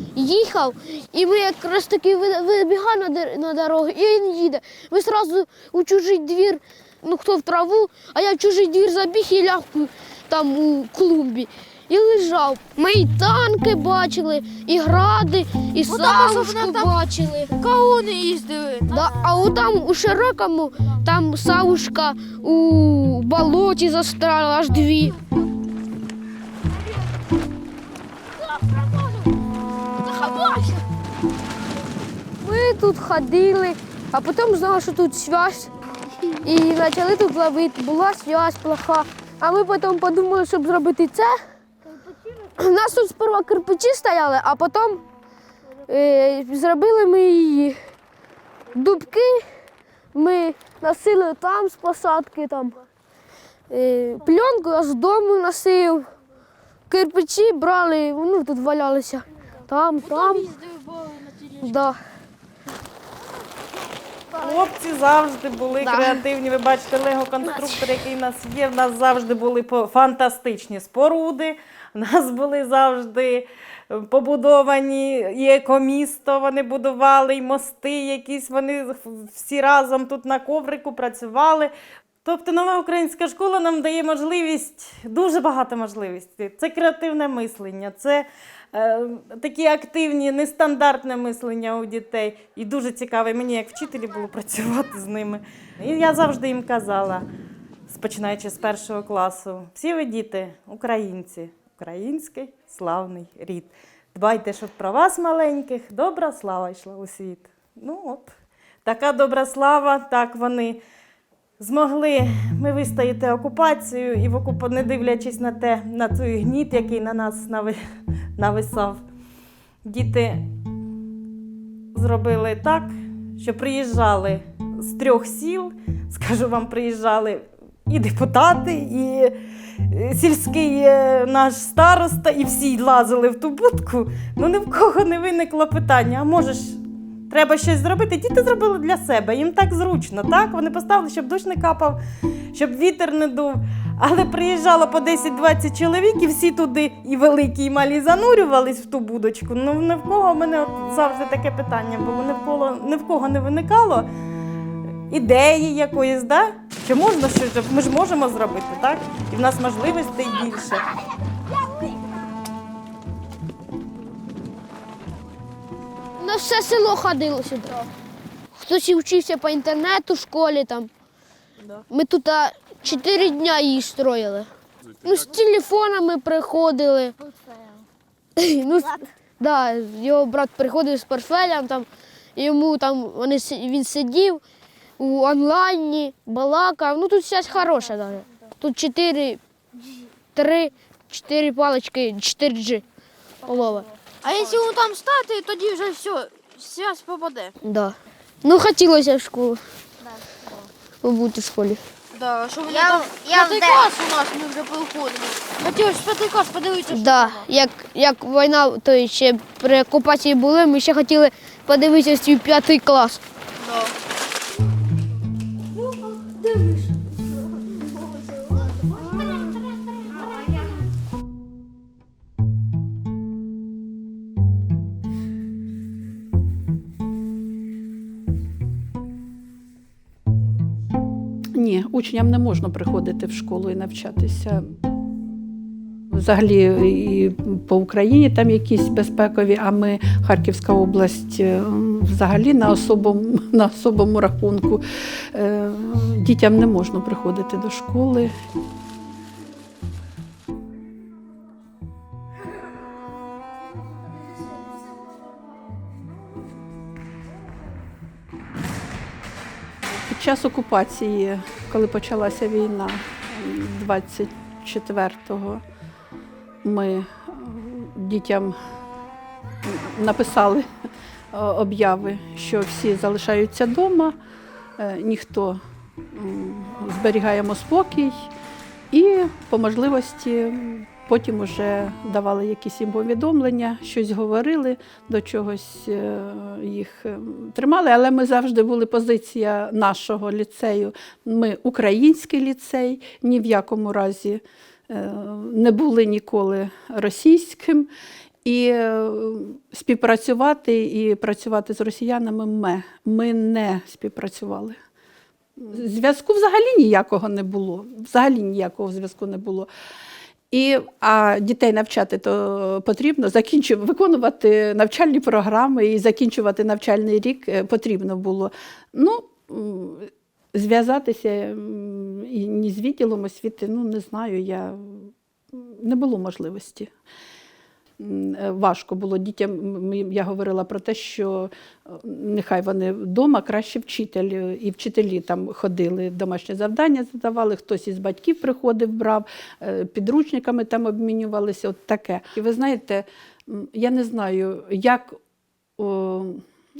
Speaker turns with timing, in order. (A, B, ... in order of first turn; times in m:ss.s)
0:00.1-0:17.5 A
0:15.9-0:17.0 B
0:17.6-0:19.2 B
0:18.9-0:25.2 A
0:28.6-0:29.1 B
0:30.1-0:30.8 B
0:32.4-0:35.7 A
0:36.4-0:41.4 A
0:42.3-0:45.0 A
0:45.8-0:47.8 A
0:48.7-0:49.4 A
0:50.1-0:52.8 A
0:53.7-0:56.1 A
0:56.9-1:00.5 A
1:00.0-1:01.8 B
1:01.6-1:02.0 A
1:04.4-1:21.7 C
1:05.8-1:06.2 A
1:22.2-1:37.3 C
1:37.9-1:50.8 C
1:51.6-1:57.8 C
1:58.4-1:59.0 C
1:59.8-2:00.5 C
2:01.9-2:09.4 C
2:09.9-2:22.0 C
2:22.5-2:34.1 C
2:35.1-2:40.9 C
2:46.2-2:47.8 A
2:48.5-2:50.9 A
2:51.9-2:54.5 A
2:55.0-2:57.2 A
2:58.4-3:04.4 A
3:05.0-3:09.4 A
3:10.3-3:12.8 A
3:13.4-3:13.9 A
3:14.2-3:17.5 B
3:17.6-3:19.6 A
3:21.0-3:21.8 A
3:22.1-3:27.4 B
3:26.9-3:33.2 A
3:33.6-3:33.9 B
3:38.9-3:39.4 B
3:51.5-3:54.6 D
3:56.1-4:08.3 D
4:20.0-4:25.6 D
4:26.6-4:28.6 D
4:29.6-4:30.7 D
4:31.3-4:34.2 D
4:34.8-4:35.6 D
4:36.1-4:38.3 D
4:38.9-4:57.9 D
4:58.4-5:04.8 D
5:05.6-5:09.7 D
5:10.5-5:26.9 D
5:28.0-5:45.2 D
5:45.8-5:46.4 D